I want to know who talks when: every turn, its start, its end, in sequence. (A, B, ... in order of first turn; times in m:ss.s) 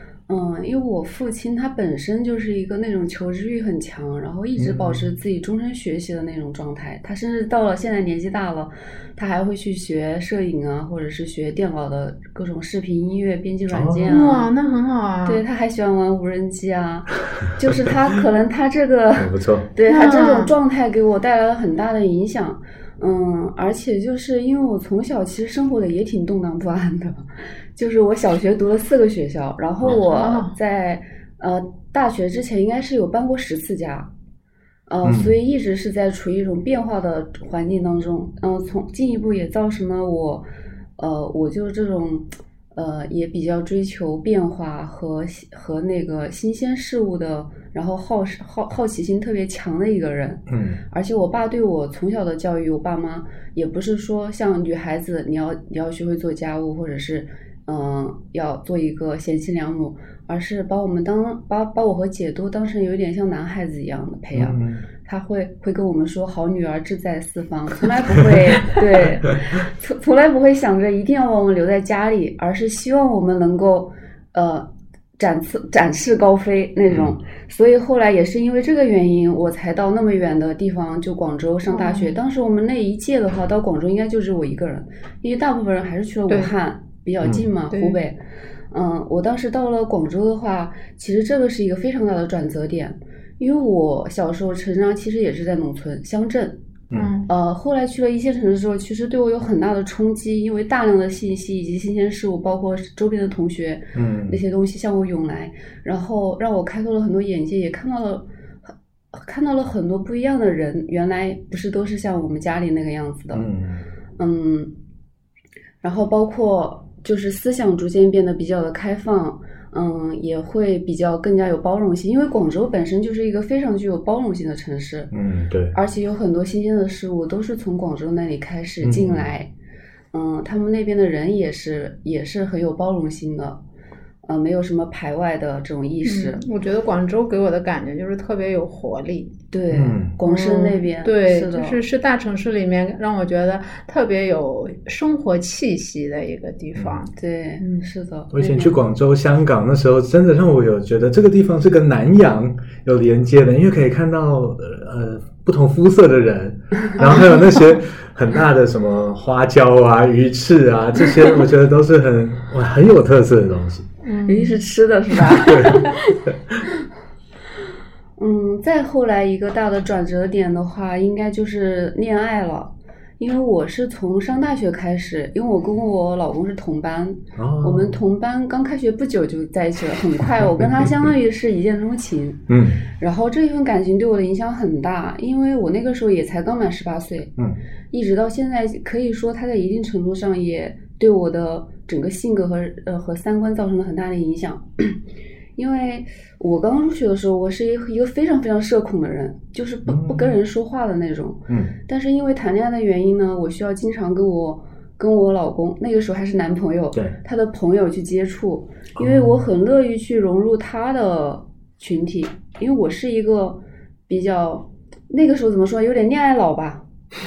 0:00.3-0:14.5 A
0:04.6-0:05.0 B
0:13.7-0:14.1 B
0:14.1-0:15.4 C
0:15.2-0:34.1 A
0:19.2-0:19.7 B
0:19.9-0:20.5 C
0:30.0-0:30.5 C
0:34.9-0:40.4 A
0:35.0-0:35.3 B
0:41.0-1:28.2 A
0:50.5-0:50.8 B
1:04.3-1:04.8 B
1:16.9-1:17.2 B
1:21.7-1:22.2 C
1:27.7-1:28.0 C
1:28.7-1:36.6 A
1:36.9-1:37.3 C
1:37.3-1:53.5 A
1:43.9-1:44.4 B
1:53.3-1:53.8 B
1:54.2-1:54.7 A
1:55.8-2:05.1 A
2:05.1-2:05.8 B
2:05.7-2:09.5 A
2:08.8-2:09.3 B
2:10.1-2:13.6 A
2:14.2-2:16.4 A
2:16.0-2:19.3 C
2:19.5-2:21.8 A
2:19.7-2:20.1 B
2:20.2-2:27.8 C
2:27.2-2:28.8 A
2:28.3-2:43.9 B
2:37.0-2:37.8 C
2:44.0-2:44.6 C
2:44.2-2:46.1 A
2:45.4-2:46.6 B
2:48.2-3:07.3 A
2:57.4-2:58.0 B
3:00.4-3:00.9 B
3:02.5-3:02.8 B
3:07.9-3:15.0 A
3:15.6-3:36.8 A
3:19.9-3:20.3 B
3:21.5-3:21.7 B
3:29.0-3:29.4 B